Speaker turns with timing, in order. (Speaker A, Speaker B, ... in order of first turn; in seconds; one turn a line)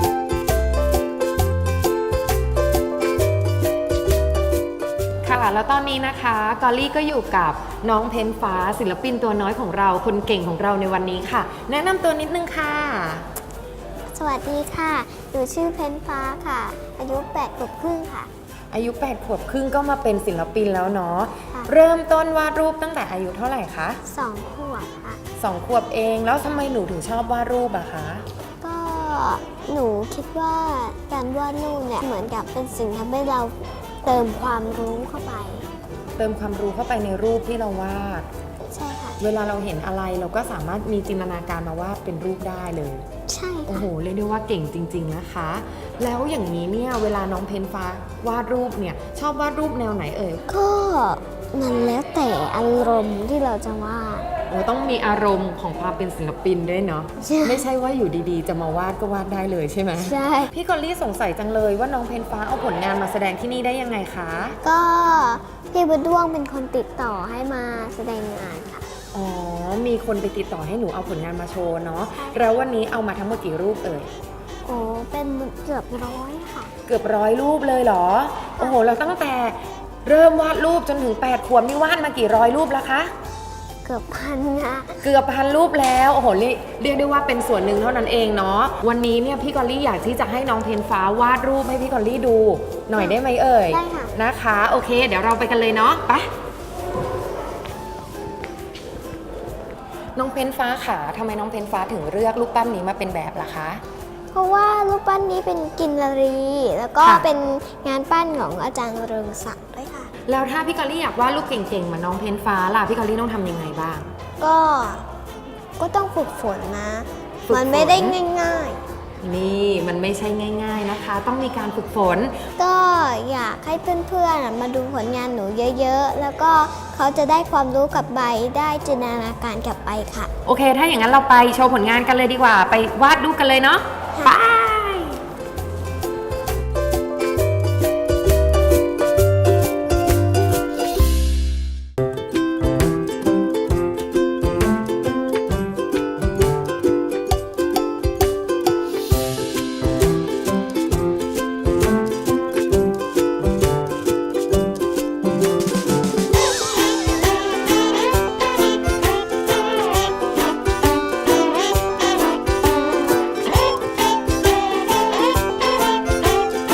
Speaker A: 5.2-13.3
Speaker B: 14.1-18.3
Speaker A: 18.7-24.0
Speaker B: 24.1-25.2
Speaker A: 25.4-28.2
Speaker B: 28.6-35.7
Speaker A: 36.2-38.3
Speaker B: 38.7-39.2
Speaker A: 39.2-43.0
Speaker B: 43.3-43.9
Speaker A: 43.7-50.4
Speaker B: 50.5-54.3
Speaker A: 54.5-64.6
Speaker B: 57.2-57.7
Speaker B: 60.0-60.5
Speaker B: 64.6-68.9
Speaker A: 69.1-74.1
Speaker B: 72.2-72.4
Speaker B: 74.6-76.7
Speaker A: 76.8-83.1
Speaker B: 83.8-85.0
Speaker A: 85.0-96.3
Speaker B: 93.7-94.1
Speaker A: 100.1-103.8
Speaker B: 104.3-110.1
Speaker A: 107.0-107.3
Speaker A: 110.3-114.1
Speaker B: 114.4-115.0
Speaker B: 115.8-118.8
Speaker A: 117.5-118.2
Speaker A: 119.2-122.3
Speaker B: 122.6-130.3
Speaker A: 130.4-135.2